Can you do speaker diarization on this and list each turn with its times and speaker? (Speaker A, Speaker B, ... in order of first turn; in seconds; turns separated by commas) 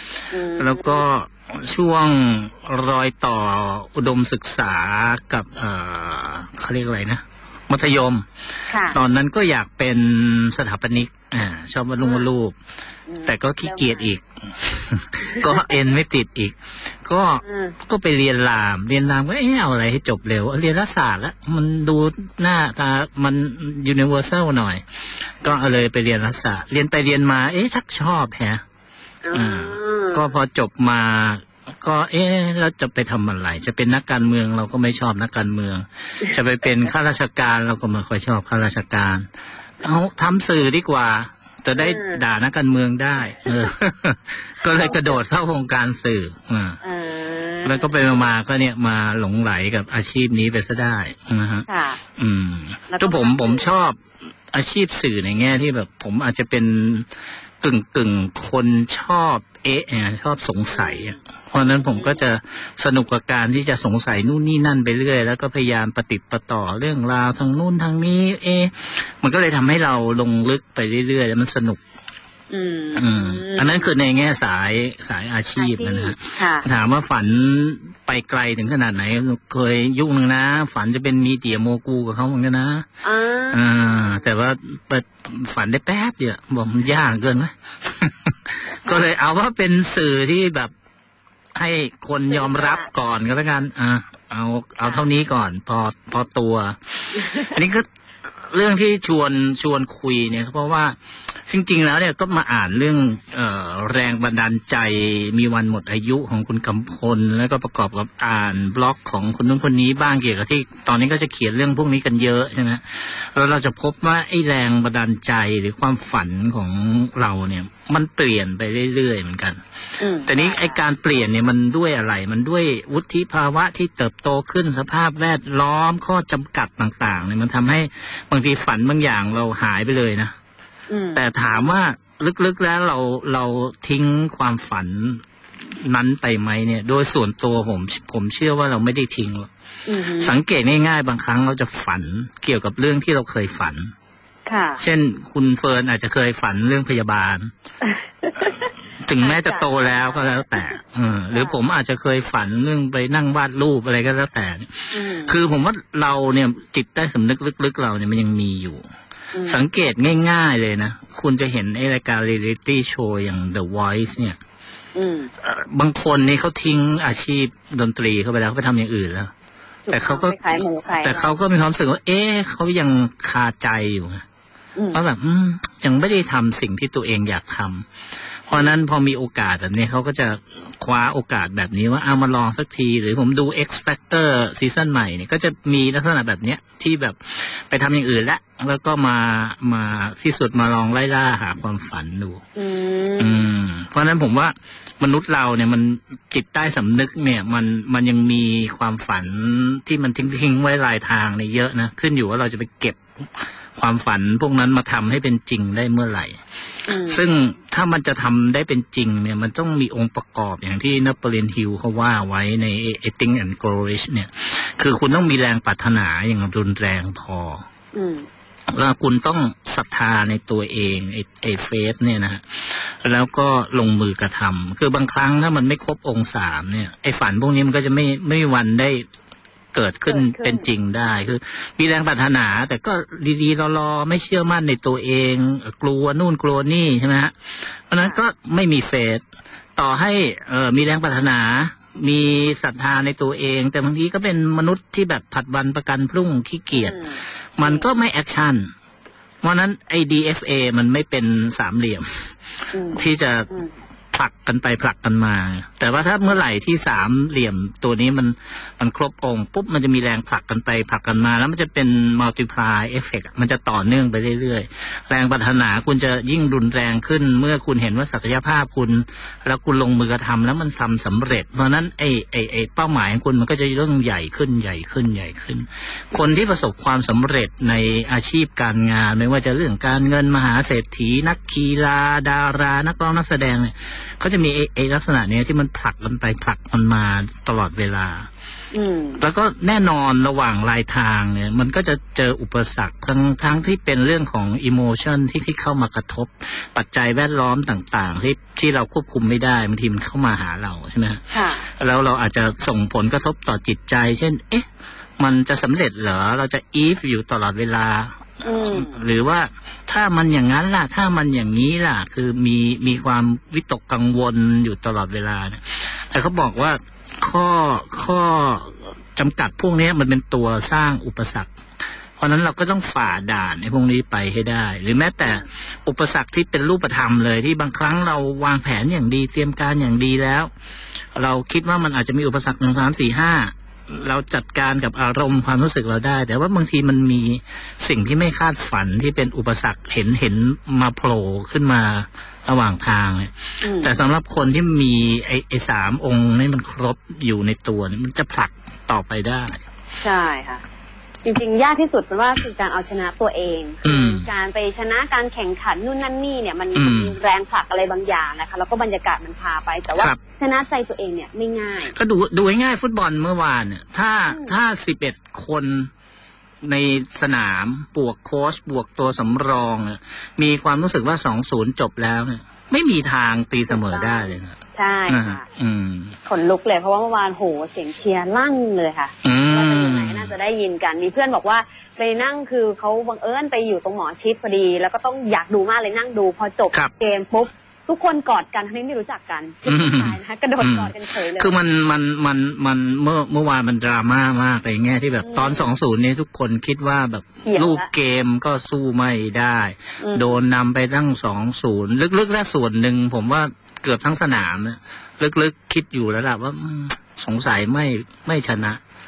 Speaker A: 0.3-1.0, Speaker B: 0.6-8.2, Speaker A: 8.7-9.0, Speaker B: 8.9-12.5, Speaker A: 12.0-12.3, Speaker A: 13.1-14.1, Speaker B: 13.2-24.8, Speaker A: 15.3-15.7, Speaker A: 17.4-17.8, Speaker B: 25.4-28.6, Speaker A: 29.2-30.3, Speaker B: 29.3-39.3, Speaker B: 39.8-46.8, Speaker A: 41.8-42.2, Speaker A: 44.7-45.1, Speaker A: 46.8-47.9, Speaker B: 47.6-51.6, Speaker A: 51.7-52.0, Speaker B: 52.2-54.0, Speaker A: 52.9-53.7, Speaker B: 54.5-57.1, Speaker B: 57.6-71.8, Speaker A: 60.7-62.2, Speaker A: 72.5-73.9, Speaker B: 72.9-82.9, Speaker A: 75.6-76.7, Speaker A: 83.0-84.2, Speaker B: 83.5-90.7, Speaker B: 91.5-97.8, Speaker A: 92.3-92.9, Speaker A: 97.2-97.5, Speaker B: 98.5-100.9, Speaker B: 101.5-119.6, Speaker A: 120.0-120.8, Speaker B: 120.2-130.3, Speaker A: 130.9-131.7, Speaker B: 131.1-135.2, Speaker B: 135.8-139.5, Speaker A: 139.8-140.3, Speaker B: 140.2-143.9, Speaker A: 144.4-144.8, Speaker B: 144.8-147.5, Speaker A: 147.8-148.7, Speaker B: 149.0-158.8, Speaker A: 149.2-150.2, Speaker A: 154.9-155.3, Speaker A: 159.3-159.6, Speaker B: 159.4-164.4, Speaker A: 164.9-165.3, Speaker B: 165.4-169.3, Speaker A: 169.9-171.3, Speaker B: 169.9-174.2, Speaker A: 174.8-175.0, Speaker B: 174.9-177.8, Speaker B: 178.5-192.4, Speaker A: 192.6-193.4, Speaker B: 193.2-206.4, Speaker A: 206.9-207.2, Speaker B: 207.0-217.6, Speaker A: 217.9-218.2, Speaker B: 218.7-229.1, Speaker B: 229.7-239.2, Speaker A: 230.1-230.6, Speaker B: 239.8-247.0, Speaker A: 246.7-247.8, Speaker B: 247.6-248.7, Speaker B: 249.4-252.3, Speaker A: 252.7-253.7, Speaker B: 252.9-253.5, Speaker B: 254.1-288.3, Speaker A: 276.1-276.6, Speaker A: 288.7-289.2, Speaker B: 289.2-301.2, Speaker A: 301.3-301.6, Speaker B: 301.8-304.6, Speaker B: 305.2-321.5, Speaker A: 308.4-308.9, Speaker B: 322.2-330.5, Speaker B: 331.1-349.7, Speaker A: 343.6-343.9, Speaker A: 350.0-350.6, Speaker A: 351.2-361.9, Speaker B: 353.8-354.3, Speaker B: 356.7-357.1, Speaker B: 361.9-365.9, Speaker A: 364.3-364.5, Speaker B: 366.6-376.1, Speaker A: 373.7-375.4, Speaker A: 376.2-391.5, Speaker B: 379.2-380.3, Speaker B: 389.7-408.8, Speaker A: 395.2-395.7, Speaker A: 397.4-397.9, Speaker A: 400.0-400.4